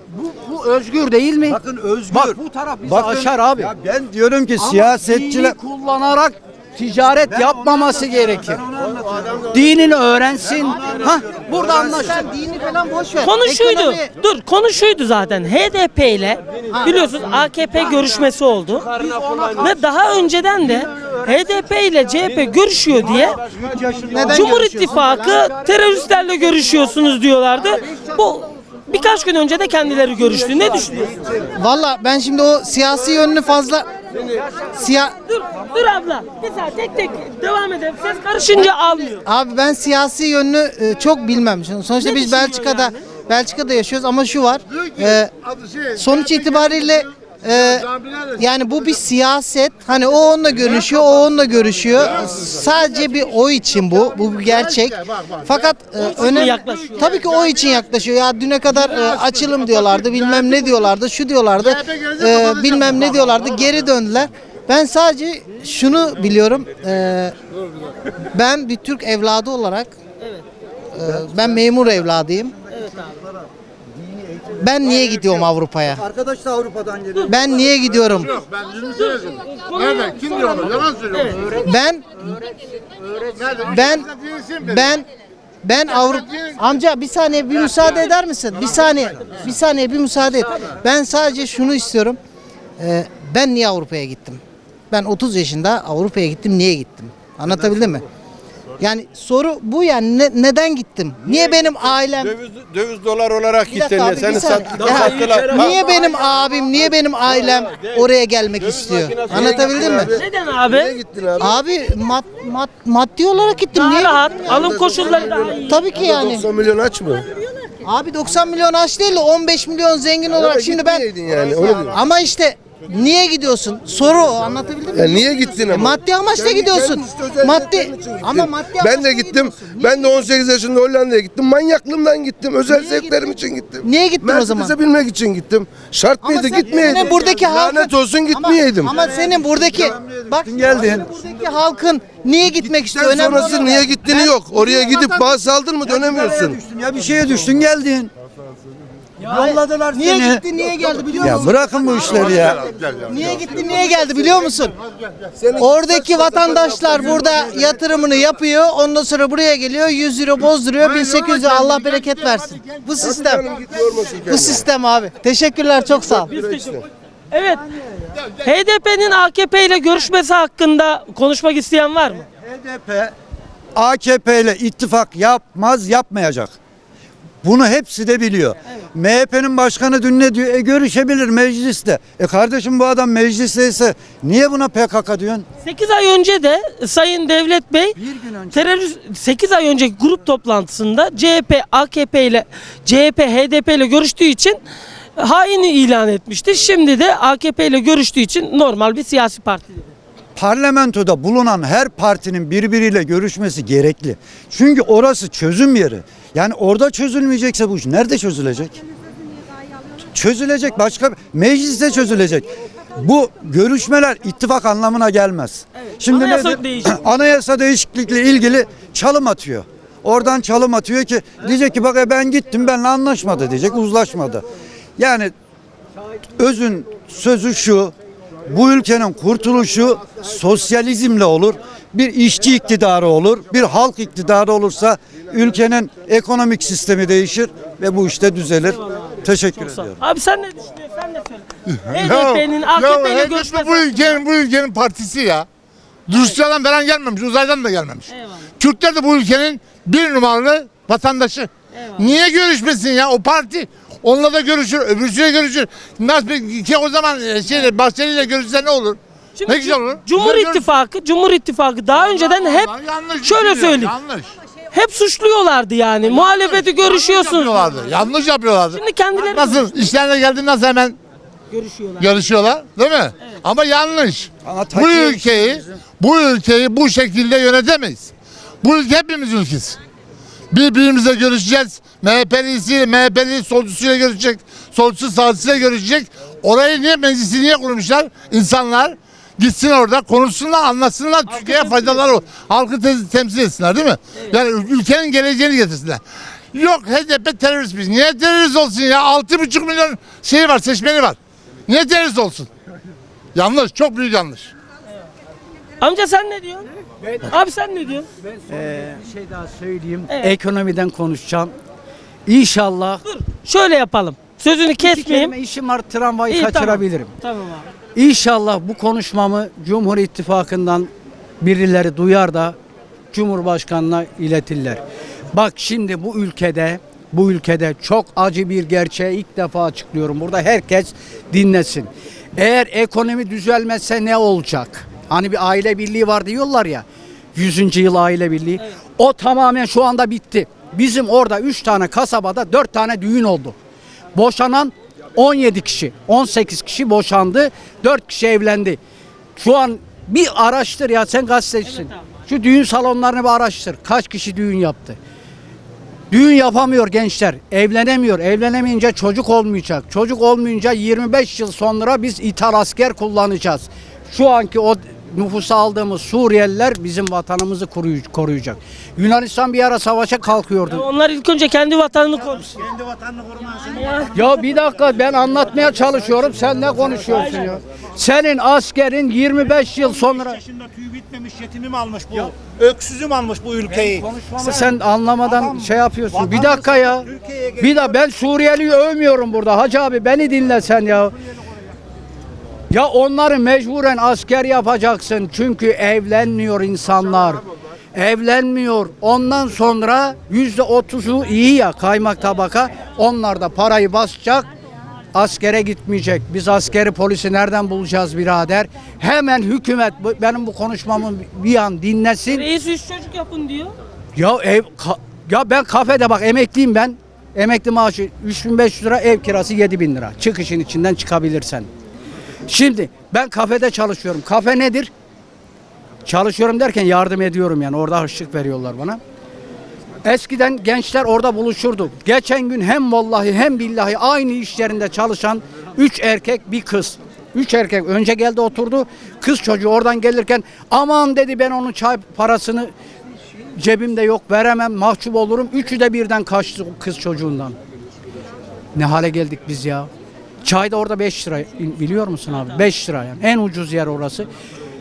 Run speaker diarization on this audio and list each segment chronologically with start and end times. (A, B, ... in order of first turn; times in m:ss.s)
0:00.1-0:01.6 A
0:01.5-0:05.6 B
0:02.1-0:03.7 A
0:04.6-0:08.6 A
0:07.3-0:09.7 B
0:09.5-0:12.1 A
0:10.8-0:12.2 B
0:11.6-0:14.1 C
0:13.2-0:18.9 D
0:16.7-0:17.1 C
0:18.9-0:19.7 A
0:19.6-0:23.4 D
0:20.8-0:21.5 A
0:23.4-0:25.6 A
0:24.1-0:25.0 C
0:24.2-0:31.1 D
0:31.5-0:34.0 C
0:34.7-0:35.2 C
0:35.3-0:39.2 D
0:39.2-0:45.3 C
0:42.0-0:43.0 D
0:45.9-1:07.4 C
0:56.0-0:57.2 D
1:01.6-1:02.7 E
1:08.3-1:09.9 C
1:10.2-1:10.4 D
1:10.9-1:12.6 C
1:12.7-1:13.2 D
1:13.1-1:13.4 B
1:14.0-1:14.5 B
1:14.6-1:16.0 C
1:16.0-1:17.4 B
1:17.3-1:18.3 C
1:18.4-1:21.4 E
1:18.9-1:21.5 D
1:21.5-1:22.2 C
1:23.1-1:23.3 A
1:23.4-1:24.9 E
1:23.6-1:25.1 C
1:25.6-1:32.2 C
1:32.8-1:38.0 C
1:38.8-1:42.4 C
1:42.3-1:45.9 F
1:43.7-1:50.2 C
1:48.8-1:51.6 F
1:50.1-1:51.0 D
1:51.4-1:54.7 C
1:53.7-1:55.8 D
1:54.5-1:57.3 F
1:55.6-1:56.5 C
1:57.8-2:10.3 C
2:00.3-2:02.0 F
2:04.9-2:18.9 F
2:12.6-2:14.8 C
2:16.2-2:25.0 C
2:19.4-2:21.1 B
2:22.7-2:26.6 F
2:25.8-2:28.1 B
2:29.3-2:30.4 B
2:29.3-2:34.8 C
2:31.2-2:32.7 B
2:35.4-2:37.4 F
2:35.6-2:43.5 C
2:43.0-2:44.7 F
2:44.1-2:46.3 C
2:46.0-2:46.8 F
2:46.3-2:47.6 D
2:48.4-2:52.2 D
2:52.4-2:53.1 B
2:53.8-2:56.6 B
2:57.4-3:05.5 B
3:05.6-3:08.0 D
3:08.0-3:08.7 B
3:08.5-3:14.6 D
3:15.2-3:19.9 D
3:20.4-3:28.8 B
3:30.1-3:44.4 B
3:35.8-3:37.0 D
3:45.0-3:45.3 B
3:46.4-3:47.9 B
3:48.5-4:00.0 B
3:58.7-4:04.2 D
4:01.7-4:05.5 E
4:06.1-4:20.7 E
4:08.1-4:08.5 D
4:11.7-4:12.1 D
4:19.4-4:24.0 D
4:21.9-4:24.3 E
4:24.7-4:27.9 D
4:26.1-4:31.0 E
4:28.7-4:29.9 D
4:31.5-4:32.2 D
4:32.0-4:39.8 E
4:34.4-4:35.8 B
4:40.5-5:01.2 E
4:51.3-4:52.1 D
5:01.7-5:02.5 E
5:03.4-5:04.5 E
5:05.8-5:06.7 D
5:07.0-5:07.3 A
5:07.3-5:08.1 D
5:08.2-5:11.5 A
5:10.1-5:10.4 D
5:12.3-5:13.0 A
5:13.0-5:15.3 D
5:14.8-5:17.1 A
5:16.3-5:17.7 D
5:18.0-5:20.9 A
5:21.4-5:22.6 A
5:23.1-5:24.8 A
5:25.3-5:43.6 A
5:44.2-5:48.8 A
5:49.4-5:55.0 A
5:51.6-5:52.0 D
5:56.1-6:10.8 A
6:10.7-6:12.5 D
6:12.6-6:14.1 G
6:13.7-6:14.2 D
6:14.1-6:20.4 A
6:20.1-6:24.7 G
6:23.7-6:31.1 A
6:25.2-6:25.6 G
6:26.1-6:27.9 G
6:32.7-6:37.4 A
6:38.0-6:44.5 A
6:45.1-6:52.4 A
6:52.3-6:53.8 D
6:54.2-7:01.7 A
7:02.5-7:04.9 A
7:06.0-7:09.0 A
7:10.0-7:22.7 A
7:23.6-7:27.6 A
7:28.8-7:29.9 A
7:30.4-7:34.3 A